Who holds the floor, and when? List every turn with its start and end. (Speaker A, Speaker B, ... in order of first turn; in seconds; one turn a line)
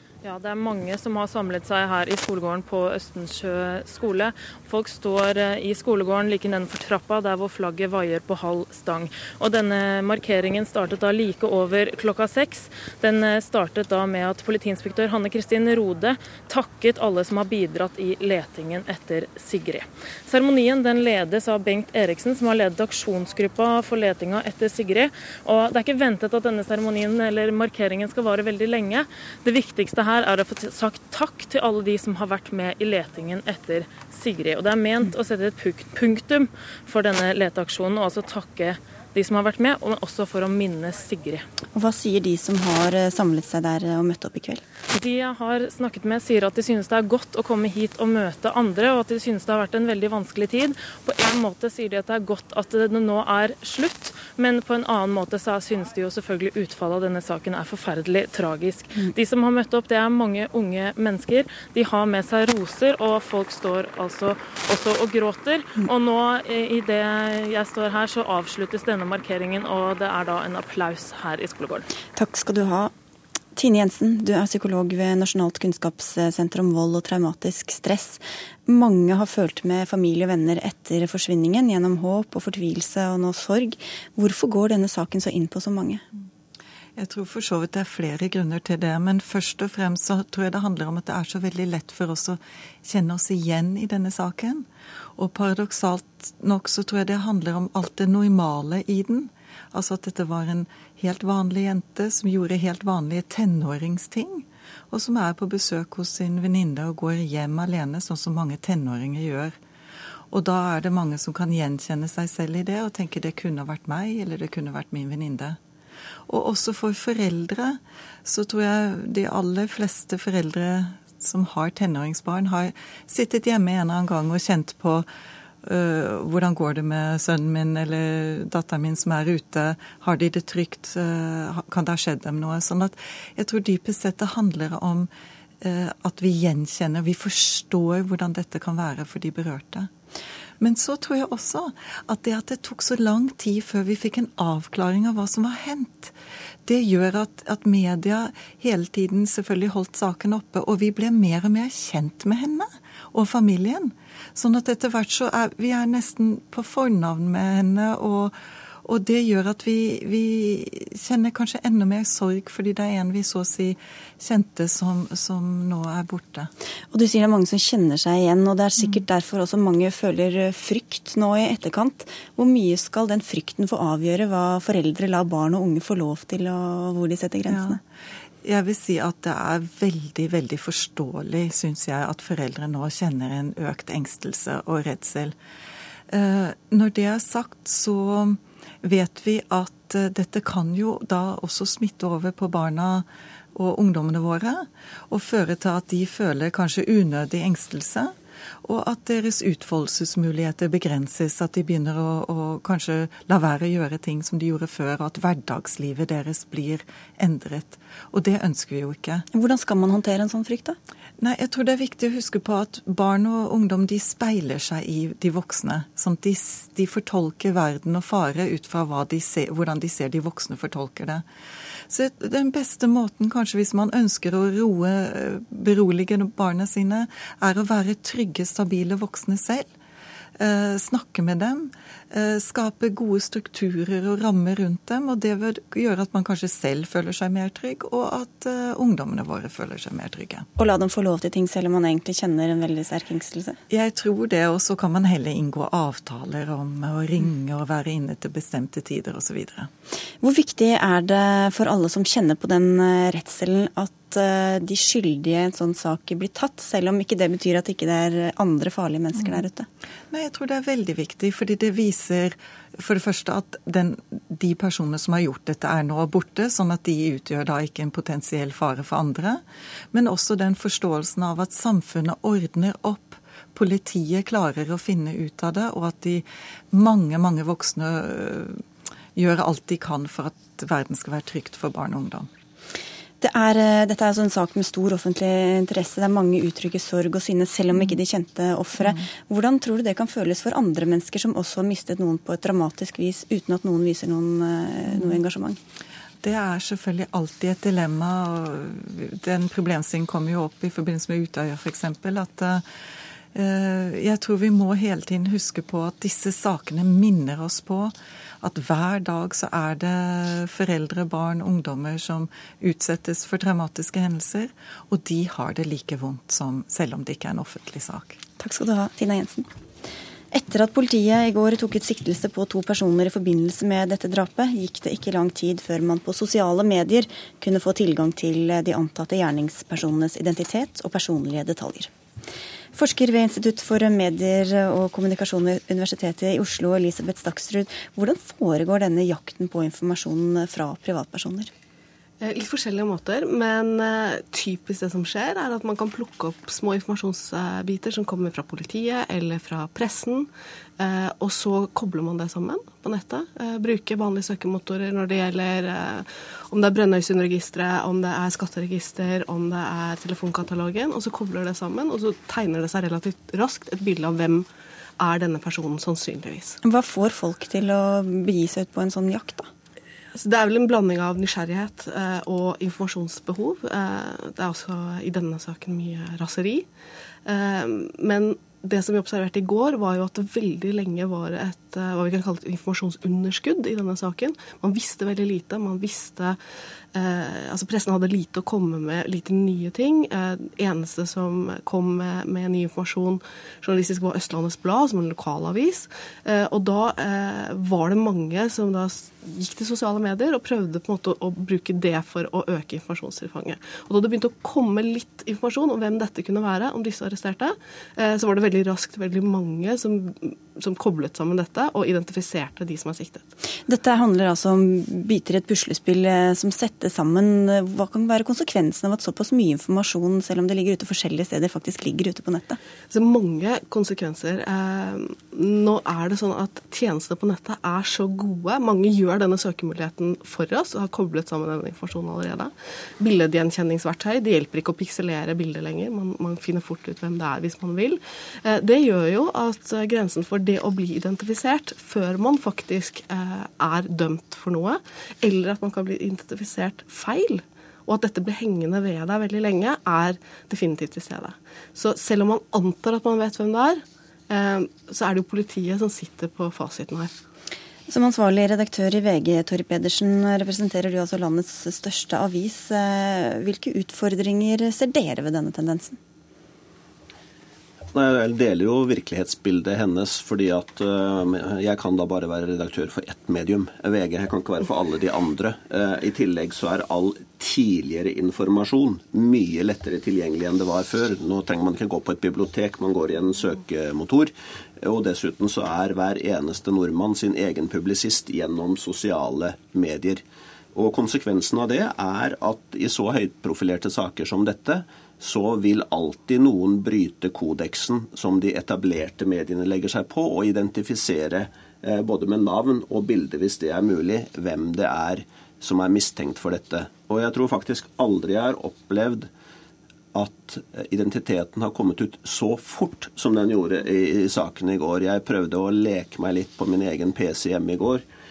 Speaker A: 0.2-41.5
Speaker B: 41.7-44.6
Speaker A: 44.9-71.9
Speaker B: 72.1-72.9
Speaker B: 73.5-86.0
Speaker C: 87.0-109.5
Speaker C: 110.3-115.6
Speaker C: 116.3-125.1
Speaker C: 125.6-135.1
Speaker C: 135.6-139.9
Speaker C: 140.6-146.1
Speaker C: 146.7-166.5
Speaker B: 166.9-177.8
Speaker C: 177.5-177.8
Speaker C: 178.4-185.3
Speaker C: 186.1-209.2
Speaker B: 209.3-210.8
Speaker C: 211.2-221.2
Speaker C: 221.9-229.7
Speaker C: 230.4-240.5
Speaker B: 240.6-243.6
Speaker C: 243.7-249.7
Speaker B: 250.2-259.7
Speaker C: 260.1-278.6
Speaker C: 279.1-282.3
Speaker B: 283.2-295.6
Speaker C: 294.9-295.2
Speaker C: 296.2-302.6
Speaker C: 303.3-318.2
Speaker B: 318.4-319.5
Speaker B: 320.3-331.9
Speaker B: 332.7-341.5
Speaker D: 342.2-364.5
Speaker D: 365.0-366.6
Speaker B: 366.6-369.5
Speaker D: 370.1-376.7
Speaker D: 377.2-386.4
Speaker D: 386.9-413.2
Speaker B: 413.7-422.6
Speaker D: 422.9-457.1
Speaker B: 457.9-466.0
Speaker E: 467.9-490.2
Speaker E: 490.7-509.3
Speaker E: 510.1-518.0